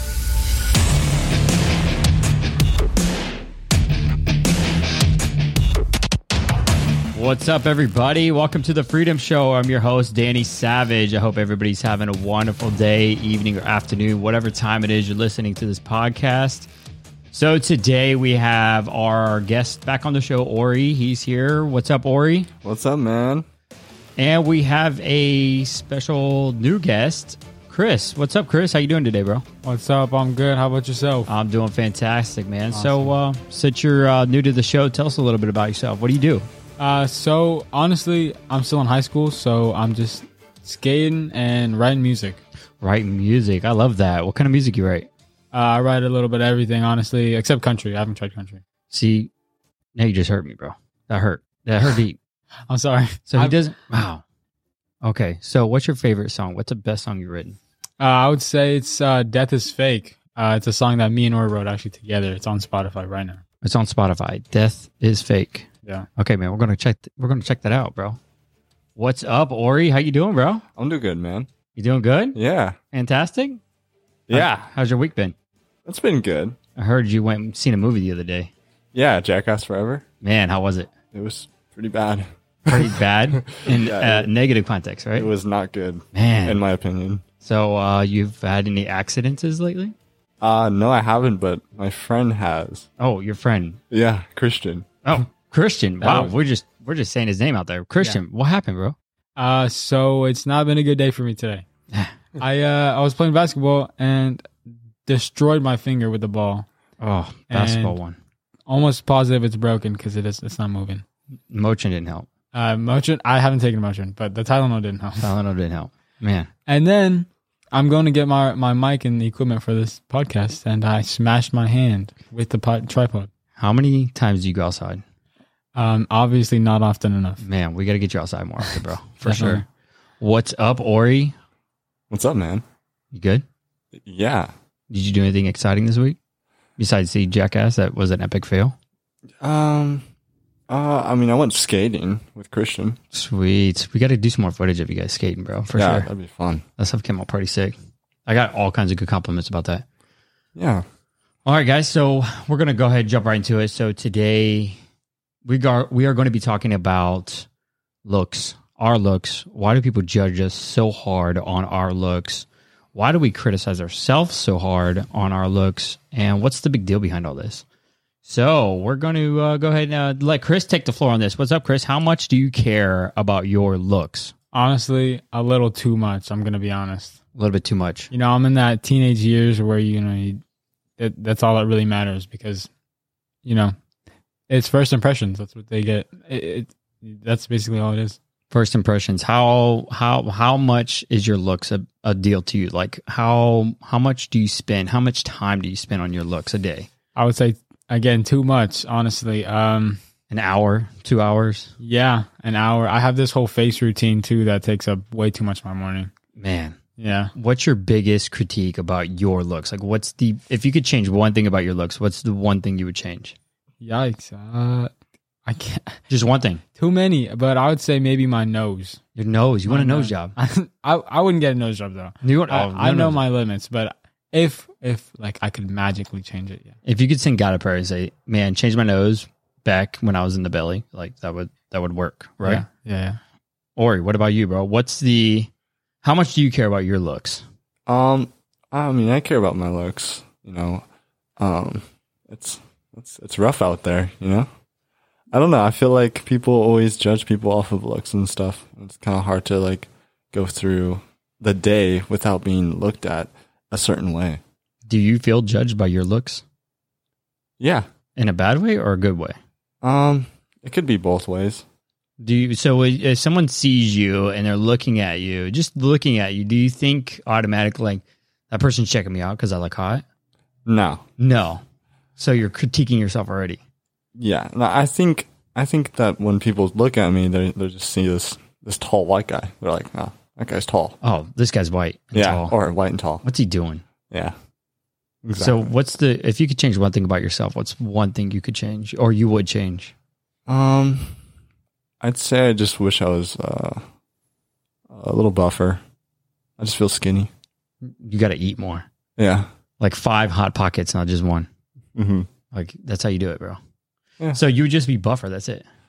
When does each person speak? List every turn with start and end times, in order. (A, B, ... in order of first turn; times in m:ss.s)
0:07.1-0:16.7 A
0:17.3-0:22.5 A
0:22.6-0:23.4 B
0:24.2-0:29.4 A
0:29.6-0:31.3 C
0:31.3-0:36.5 A
0:32.7-0:33.1 C
0:36.8-0:42.4 C
0:42.8-0:45.1 A
0:45.5-0:48.6 C
0:48.9-0:49.3 A
0:49.9-0:52.2 A
0:52.7-0:53.6 C
0:53.3-0:54.2 A
0:55.0-0:57.6 A
0:58.0-1:03.4 C
1:03.6-1:08.2 A
1:09.0-1:10.6 A
1:10.8-1:11.5 B
1:11.7-1:12.4 A
1:12.3-1:12.8 B
1:12.9-1:13.6 A
1:14.3-1:14.7 B
1:14.3-1:15.3 A
1:15.8-1:16.6 B
1:16.8-1:18.5 A
1:18.9-1:20.0 B
1:20.2-1:20.9 A
1:21.1-1:24.3 B
1:22.7-1:25.3 A
1:25.2-1:27.2 B
1:26.1-1:26.6 A
1:27.4-1:29.9 A
1:30.4-1:32.9 B
1:33.0-1:33.8 A
1:33.9-1:34.9 B
1:35.0-1:38.9 A
1:36.0-1:36.3 C
1:39.4-1:41.6 C
1:42.4-1:44.5 C
1:45.0-1:46.7 C
1:47.0-1:48.2 A
1:47.5-1:48.0 C
1:48.7-1:51.0 C
1:51.5-1:52.3 A
1:52.5-1:55.3 C
1:55.2-1:56.5 A
1:56.7-2:03.3 C
2:03.6-2:05.0 A
2:05.7-2:07.4 C
2:07.4-2:09.6 A
2:08.6-2:09.6 C
2:10.2-2:11.3 A
2:12.1-2:12.6 B
2:13.1-2:13.4 A
2:14.0-2:14.5 B
2:14.9-2:16.2 A
2:16.8-2:18.8 A
2:19.4-2:20.0 B
2:20.7-2:23.0 B
2:23.1-2:26.1 A
2:25.8-2:26.6 B
2:26.8-2:27.7 A
2:28.2-2:29.8 A
2:30.5-2:30.8 B
2:31.4-2:34.8 A
2:35.4-2:37.5 A
2:38.0-2:47.6 A
2:48.2-2:54.3 A
2:54.5-2:57.2 C
2:57.3-2:58.1 A
2:58.1-3:00.4 C
3:01.0-3:02.7 C
3:03.4-3:03.7 C
3:04.5-3:08.2 C
3:08.5-3:16.9 A
3:17.1-3:20.0 C
3:20.3-3:21.7 A
3:21.8-3:26.1 C
3:26.4-3:26.8 A
3:27.0-3:27.3 C
3:27.3-3:33.4 A
3:33.8-3:34.9 C
3:35.4-3:36.0 C
3:36.1-3:36.6 A
3:36.8-3:39.0 C
3:39.2-3:40.3 A
3:39.7-3:46.7 C
3:42.2-3:43.2 A
3:46.8-3:52.6 A
3:52.4-3:53.2 C
3:53.8-3:55.5 A
3:56.0-3:57.4 A
3:57.9-4:00.8 B
4:01.4-4:04.5 B
4:05.3-4:14.4 B
4:14.9-4:16.4 A
4:17.6-4:17.8 B
4:18.2-4:19.4 A
4:19.8-4:21.6 B
4:22.2-4:30.0 A
4:30.6-4:31.0 B
4:31.2-4:31.6 A
4:32.2-4:33.6 A
4:34.2-4:41.0 B
4:41.0-4:42.5 A
4:42.1-4:43.2 B
4:43.2-4:43.8 A
4:45.2-4:45.7 B
4:45.4-4:49.9 A
4:50.5-4:51.2 B
4:52.0-4:53.8 B
4:54.9-4:55.8 B
4:56.6-4:57.3 B
4:57.8-4:58.8 A
4:59.2-4:59.5 B
4:59.8-5:01.5 A
5:02.0-5:02.3 B
5:02.5-5:03.6 A
5:04.3-5:05.6 A